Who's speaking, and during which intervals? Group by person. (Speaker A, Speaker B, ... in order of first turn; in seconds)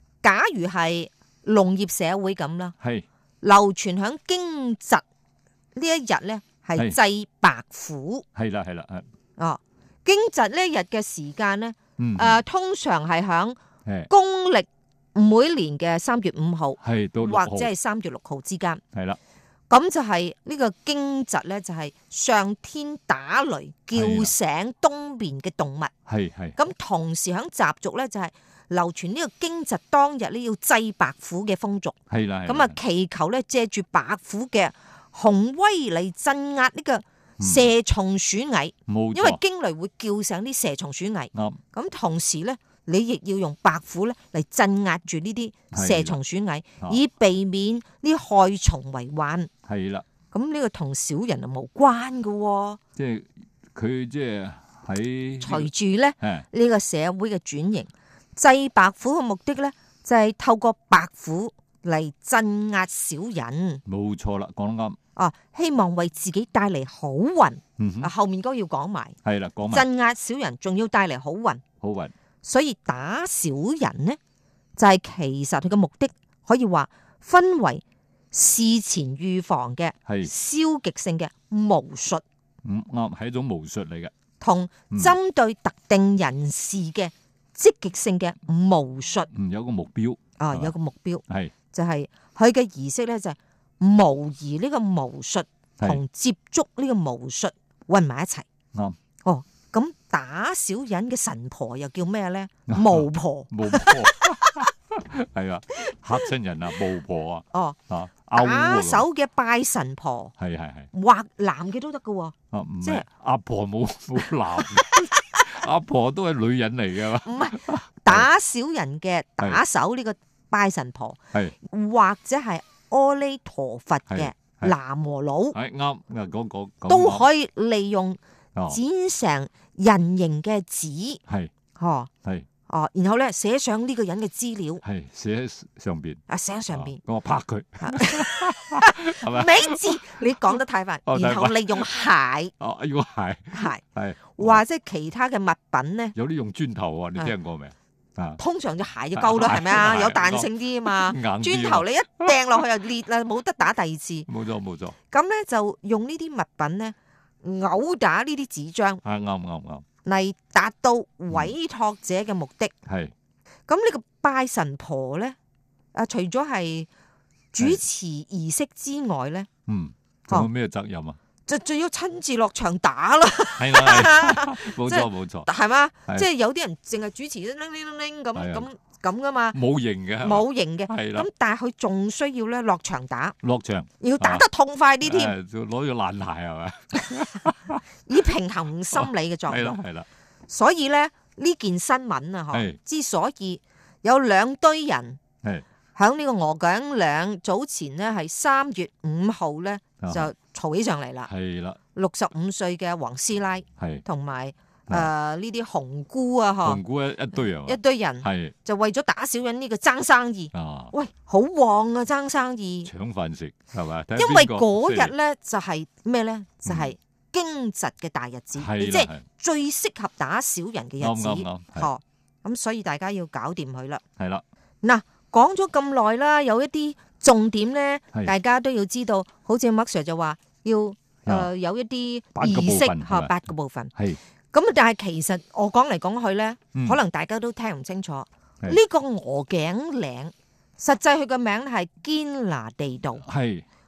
Speaker A: 0.2-2.7, 3.4-5.0, 5.7-8.2, 9.4-18.8, 19.7-25.9, 26.5-49.5, 50.3-52.8, 55.4-63.8, 65.2-69.2, 69.7-71.6, 72.4-74.2, 74.8-82.2, 84.4-89.3, 90.4-98.5, 99.2-104.6, 108.3-110.3, 110.9-113.0, 117.2-125.6, 126.9-131.2, 131.8-132.1, 132.7-134.8, 136.3-137.0, 137.8-142.5, 143.5-143.8, 144.3-146.1, 148.4-154.3, 155.1-159.0, 160.0-162.7, 163.7-165.3, 165.9-166.9, 167.5-169.5, 171.5-179.6, 180.2-183.3, 184.0-185.3, 188.1-189.8, 190.5-195.2, 195.9-201.3, 201.9-206.8, 207.5-212.9, 214.2-224.0, 224.8-233.9, 234.5-243.2
Speaker B: 2.8-3.0, 8.3-9.1, 12.0-12.4, 13.8-14.1, 16.8-17.7, 18.9-19.2, 23.9-24.3, 26.1-26.6, 32.1-32.8, 37.4-37.7, 38.9-39.4, 41.3-41.6, 45.7-46.2, 49.7-50.0, 53.0-56.5, 63.8-65.0, 67.8-68.1, 69.2-69.9, 71.8-72.1, 80.0-80.3, 82.6-84.1, 89.3-90.7, 91.3-91.5, 102.7-109.0, 110.4-110.9, 112.5-118.3, 124.1-124.7, 125.5-127.3, 134.8-140.2, 141.1-141.9, 142.6-144.6, 146.1-148.4, 149.1-152.4, 154.3-154.9, 159.0-159.8, 162.9-163.1, 169.7-171.2, 173.6-175.5, 178.3-178.7, 179.5-181.3, 183.4-184.4, 185.0-187.8, 188.9-190.1, 192.5-192.8, 200.0-200.3, 201.3-201.8, 203.8-204.0, 206.6-208.5, 210.5-210.9, 212.8-215.1, 216.6-216.9, 218.6-219.2, 221.0-221.9, 224.2-224.4, 232.3-233.3, 233.9-234.2, 236.7-237.0, 243.2-243.6